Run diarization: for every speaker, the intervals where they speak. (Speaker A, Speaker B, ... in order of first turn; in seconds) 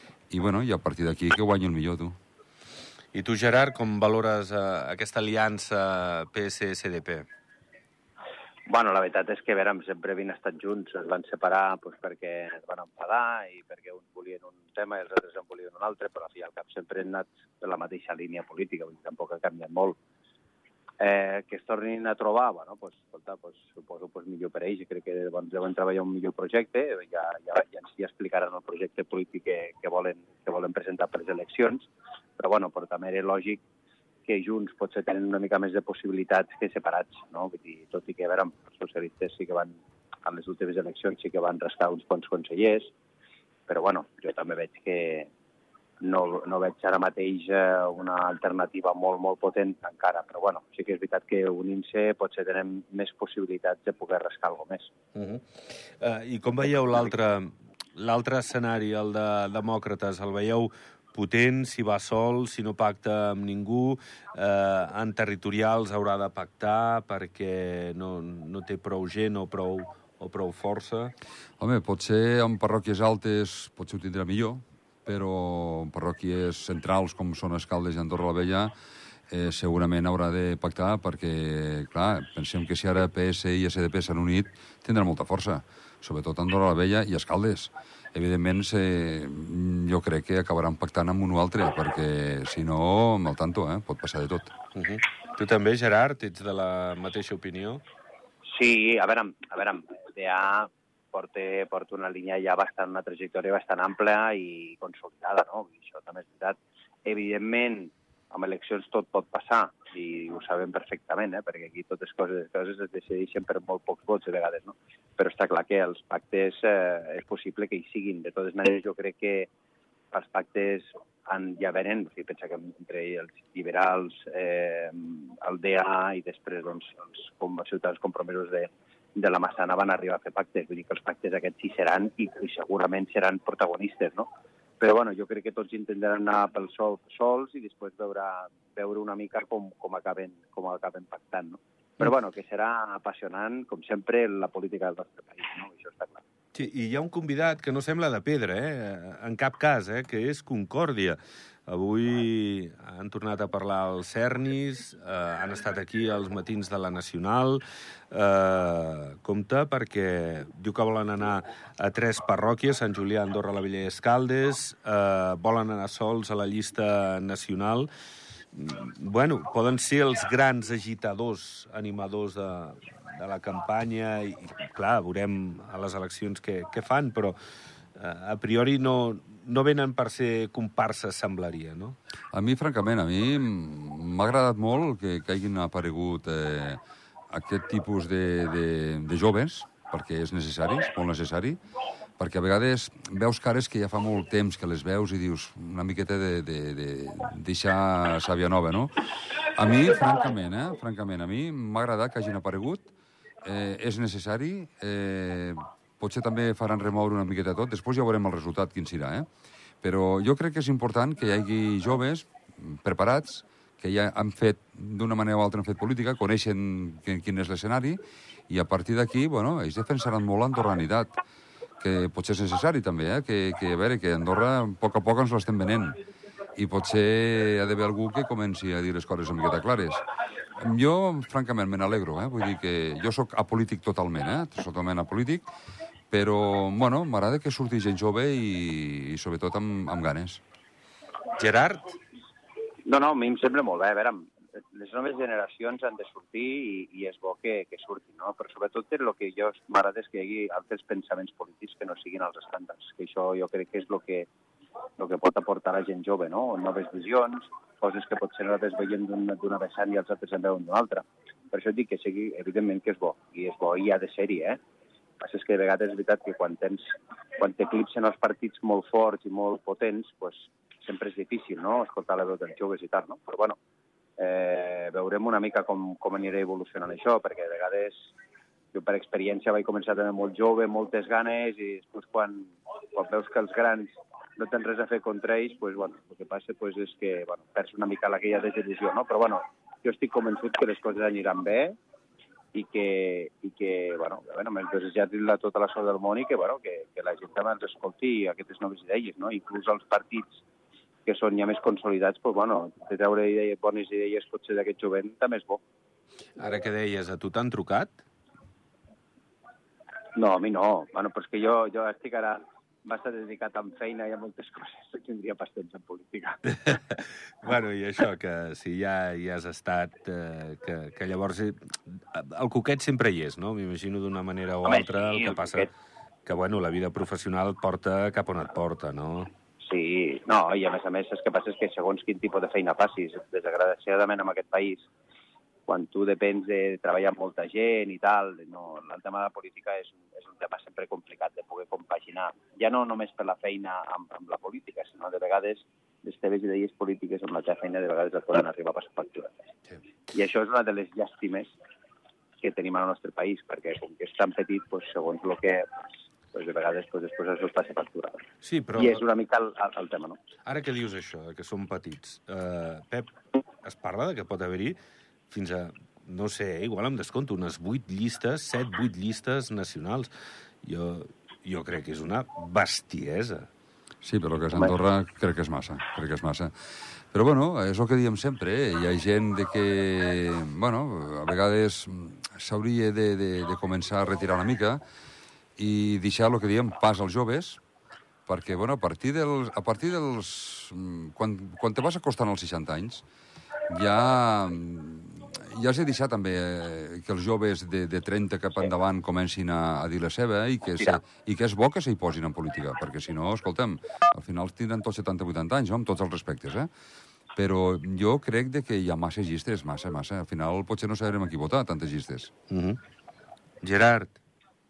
Speaker A: 0.3-2.2, 71.6-78.7, 79.3-94.6, 182.3-191.6, 192.2-202.9, 203.4-209.3, 209.8-218.0, 218.5-221.2, 221.8-226.0, 226.6-230.1, 230.6-235.5, 236.1-240.4, 374.0-376.5, 377.1-384.8, 385.6-387.6, 388.3-393.0, 393.7-406.7, 407.4-412.3
Speaker B: 3.1-7.3, 55.1-71.1, 94.8-97.8, 146.5-167.9, 168.5-177.4, 177.9-182.0, 241.4-242.0, 306.4-308.0, 316.5-325.7, 326.2-329.3, 358.4-359.0, 360.4-364.8, 365.3-370.1, 370.6-373.5, 412.5-412.8, 413.6-414.2
Speaker C: 8.7-20.0, 21.0-33.6, 34.3-42.9, 43.7-45.3, 46.0-54.9, 98.5-119.5, 120.1-134.3, 134.8-146.2, 242.9-254.3, 255.0-264.6, 265.2-273.6, 274.2-278.1, 278.7-291.8, 292.5-300.4, 301.1-305.6, 310.1-316.4, 324.6-325.7, 329.6-334.9, 335.7-349.4, 350.1-351.5, 352.4-355.7, 356.3-360.2